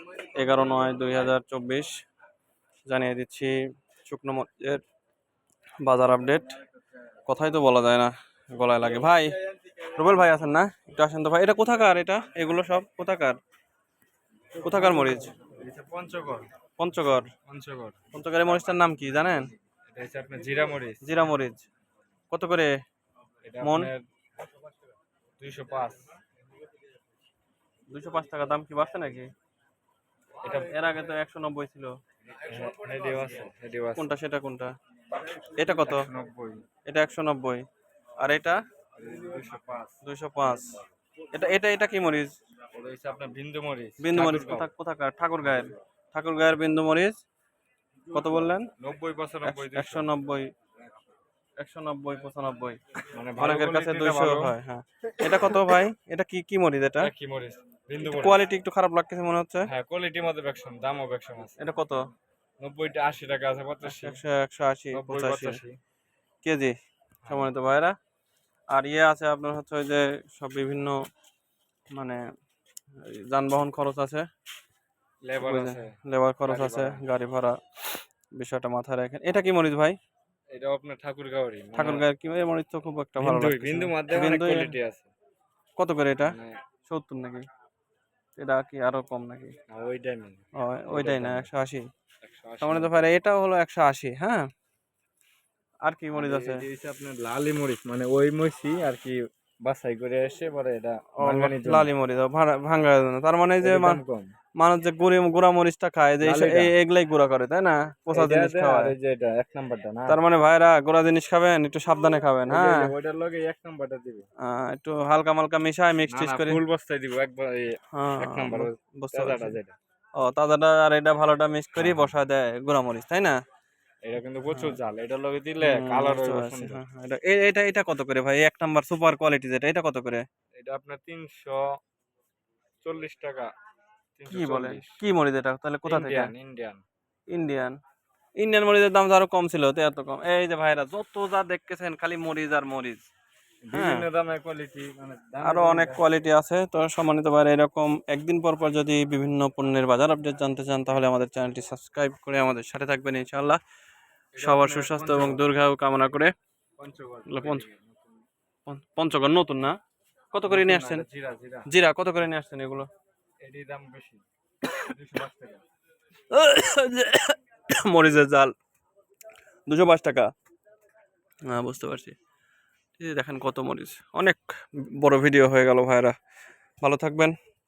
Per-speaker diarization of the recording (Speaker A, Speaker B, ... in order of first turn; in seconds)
Speaker A: 0.3-1.9, 2.9-3.5, 4.0-4.8, 5.8-6.5, 7.3-13.4, 14.6-15.3, 16.8-17.3, 18.1-19.5, 21.0-21.6, 22.3-22.7, 23.6-23.9, 27.9-29.3, 30.4-31.9, 34.0-34.7, 35.4-36.1, 36.9-37.6, 38.2-38.6, 40.0-40.8, 41.3-42.3, 44.0-47.1, 48.1-48.7, 49.4-50.5, 51.6-52.8, 53.4-57.1, 58.0-59.7, 61.6-62.1, 63.8-65.6, 66.4-66.7, 67.3-67.9, 68.7-71.0, 73.0-74.2, 75.4-80.0, 81.7-84.7, 85.8-86.3, 86.8-87.4, 88.4-89.5, 90.5-91.9, 92.6-94.4, 95.8-96.6, 101.2-104.0, 104.6-108.9, 110.1-112.9, 114.4-116.6, 117.9-119.6, 120.2-123.4, 124.5-124.8, 125.6-130.2, 134.3-136.3, 137.3-137.8, 138.4-143.0, 143.7-144.1, 145.4-153.6, 154.4-156.3, 157.3-157.7, 158.7-159.8, 160.3-161.0, 161.7-162.9, 166.3-168.5, 169.7-170.3, 171.5-172.1, 173.0-174.4, 175.0-176.2, 176.8-177.3
Speaker B: 15.4-16.5, 17.4-18.0, 19.9-21.0, 23.4-24.1, 25.4-26.1, 30.4-30.7, 32.3-34.1, 35.6-36.6, 39.0-40.0, 42.7-44.7, 48.8-50.1, 53.1-54.5, 57.0-58.4, 59.6-61.7, 62.6-64.2, 64.9-65.8, 67.2-67.5, 75.2-77.0, 80.5-82.1, 83.2-85.1, 86.2-86.6, 89.7-91.5, 92.2-93.1, 96.1-101.9, 103.6-104.3, 106.2-106.7, 108.1-110.2, 112.5-114.3, 116.1-119.8, 121.8-122.1, 124.0-126.8, 130.6-131.8, 132.8-133.5, 134.2-135.0, 135.8-136.8, 143.6-146.0, 154.3-155.4, 156.8-158.2, 160.5-161.7, 163.4-164.2, 164.7-165.6